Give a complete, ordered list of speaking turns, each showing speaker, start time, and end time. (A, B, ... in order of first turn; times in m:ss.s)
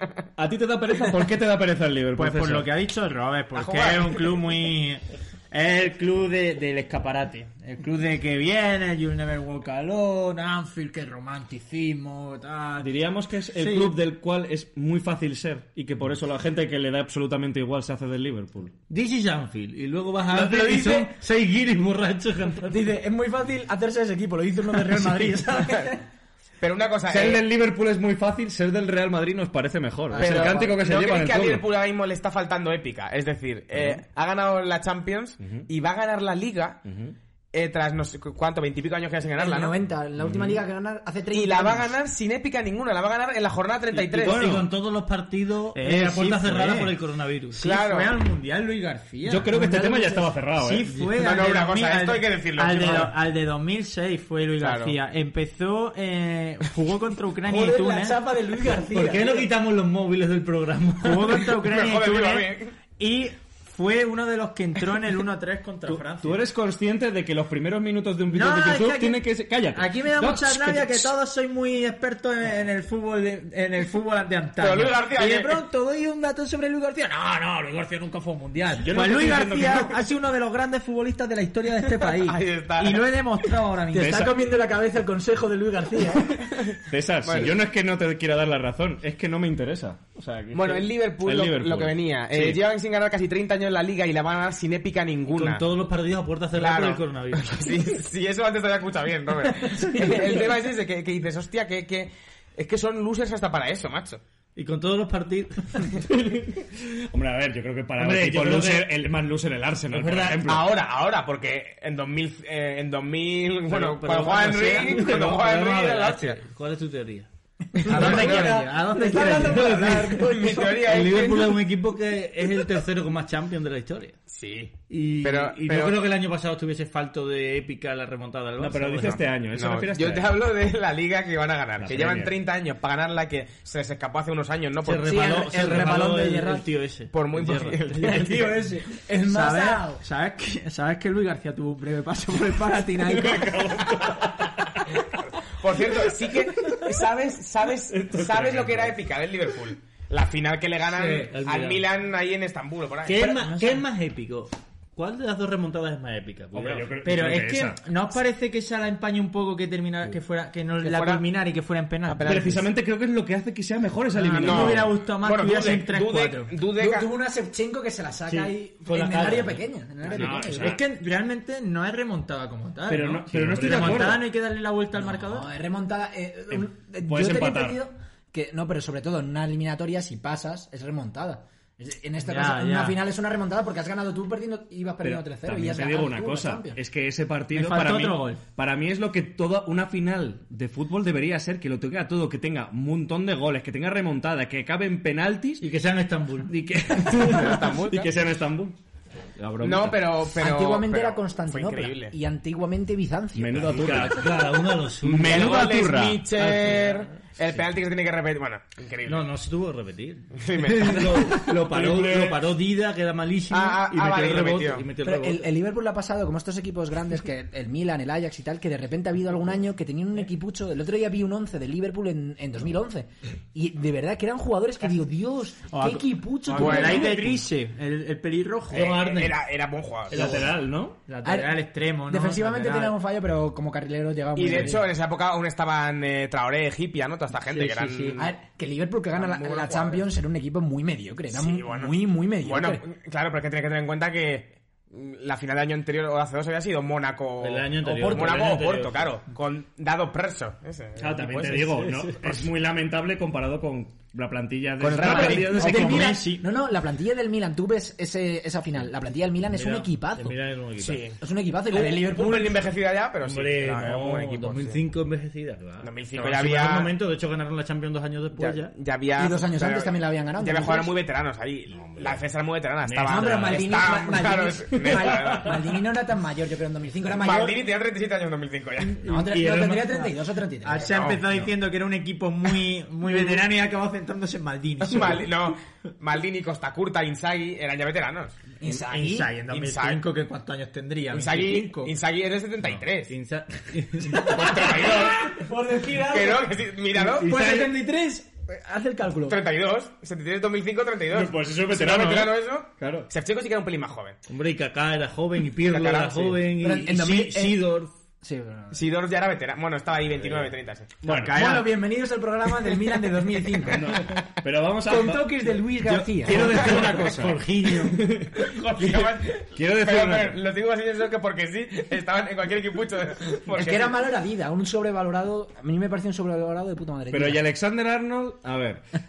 0:00.4-0:02.7 A
0:02.2-0:12.9 B
0:03.5-0:04.3 C
0:12.8-0:18.7 A
0:13.5-0:13.9 B
0:18.9-0:22.8 D
0:20.3-0:21.1 E
0:22.6-0:26.0 E
0:26.6-0:27.4 C
0:27.1-0:31.6 A
0:30.1-0:30.8 E
0:30.1-0:36.8 C
0:33.7-0:34.0 A
0:36.8-0:37.1 A
0:37.5-0:39.7 C
0:39.4-0:41.9 E
0:40.2-0:40.6 A
0:41.3-0:44.6 C
0:43.9-0:47.6 D
0:44.2-0:44.7 A
0:45.7-0:46.9 B
0:47.5-0:49.6 B
0:47.6-0:48.1 C
0:49.2-0:50.9 A
0:49.5-0:50.3 E
0:50.5-0:58.2 B
0:51.2-0:53.1 C
0:54.6-0:55.0 C
0:57.4-0:59.5 E
0:58.9-1:01.4 D
1:01.0-1:06.4 B
1:01.5-1:02.7 C
1:05.9-1:11.1 A
1:08.3-1:24.3 B
1:14.6-1:15.6 C
1:18.7-1:20.0 A
1:22.0-1:23.1 C
1:23.9-1:24.4 A
1:23.9-1:26.4 E
1:26.8-1:32.6 A
1:27.2-1:27.5 C
1:30.5-1:35.6 C
1:35.3-1:37.7 D
1:36.5-1:44.2 C
1:44.6-1:46.0 D
1:46.0-1:50.7 A
1:48.0-1:48.9 D
1:49.9-1:50.4 D
1:50.4-1:56.4 C
1:53.7-1:57.3 D
1:57.8-1:58.6 C
1:57.8-2:00.4 B
1:57.8-2:04.2 D
1:57.9-2:00.9 E
2:00.2-2:01.6 C
2:04.3-2:06.0 C
2:04.9-2:09.2 D
2:08.6-2:10.4 A
2:09.5-2:15.2 C
2:11.8-2:12.3 A
2:14.8-2:18.2 D
2:15.0-2:16.6 E
2:17.1-2:18.6 C
2:18.0-2:23.4 B
2:18.0-2:20.0 E
2:23.0-2:23.5 E
2:23.0-2:25.0 A
2:25.4-2:33.4 C
2:25.8-2:26.8 A
2:27.9-2:29.0 A
2:31.0-2:31.8 D
2:33.0-2:36.9 D
2:36.5-2:37.8 A
2:37.0-2:42.6 B
2:40.8-2:41.2 C
2:42.1-2:42.6 C
2:42.2-2:44.9 A
2:44.1-2:46.5 B
2:44.3-2:47.1 C
2:46.8-2:50.8 E
2:48.3-2:49.6 D
2:50.1-2:50.8 A
2:50.4-2:55.5 B
2:52.9-2:54.3 A
2:53.4-2:54.1 D
2:55.1-3:06.8 E
2:56.5-2:57.8 A
3:02.2-3:03.0 B
3:05.0-3:15.6 A
3:07.5-3:08.4 B
3:15.6-3:16.5 D
3:16.5-3:18.8 A
3:17.0-3:18.1 C
3:19.4-3:20.3 A
3:19.6-3:22.1 C
3:20.4-3:24.1 E
3:23.3-3:24.4 A
3:23.7-3:25.7 D
3:25.0-3:26.2 A
3:25.2-3:29.2 C
3:26.4-3:27.2 D
3:29.0-3:35.5 D
3:30.3-3:31.4 C
3:31.0-3:32.4 A
3:33.5-3:34.9 C
3:35.0-3:47.1 E
3:45.7-3:49.0 B
3:46.5-3:47.2 C
3:48.7-3:49.4 D
3:48.7-3:50.4 C
3:50.1-3:51.0 A
3:50.1-3:50.5 D
3:51.1-3:53.0 B
3:51.2-3:54.9 E
3:54.3-3:58.3 C
3:57.3-3:58.2 D
3:58.2-4:02.8 E
3:59.1-4:00.1 C
4:01.3-4:11.7 C
4:07.4-4:09.1 D
4:11.0-4:16.2 A
4:11.6-4:12.3 D
4:14.8-4:15.6 C
4:15.0-4:20.4 E
4:15.0-4:16.5 B
4:19.5-4:21.1 D
4:20.8-4:21.2 C
4:21.2-4:22.7 E
4:21.7-4:24.8 C
4:23.2-4:28.7 D
4:25.8-4:26.9 C
4:28.3-4:35.7 C
4:29.2-4:30.9 E
4:31.7-4:32.2 A
4:32.8-4:33.7 D
4:33.0-4:37.6 E
4:37.2-4:39.1 C
4:39.0-4:41.0 E
4:39.1-4:40.0 D
4:40.6-4:45.3 B
4:40.8-4:41.3 C
4:44.8-4:48.4 C
4:48.6-4:49.3 E
4:48.6-4:51.9 B
4:49.5-4:50.0 C
4:51.1-4:53.1 C
4:53.1-4:54.8 D
4:54.1-4:55.4 C
4:54.5-4:59.4 E
4:56.0-4:57.4 C
4:57.2-4:57.8 B
4:57.2-4:57.6 D
4:59.2-5:04.2 C
5:01.1-5:03.1 A
5:04.3-5:07.9 D
5:05.6-5:06.4 C
5:06.6-5:07.7 E
5:08.2-5:08.8 E
5:08.7-5:11.0 C
5:11.0-5:11.5 A
5:11.0-5:11.7 B
5:11.3-5:13.9 E
5:13.7-5:20.4 A
5:14.8-5:16.6 E
5:16.2-5:18.2 D
5:18.4-5:24.0 C
5:23.5-5:27.4 E
5:27.1-5:28.8 A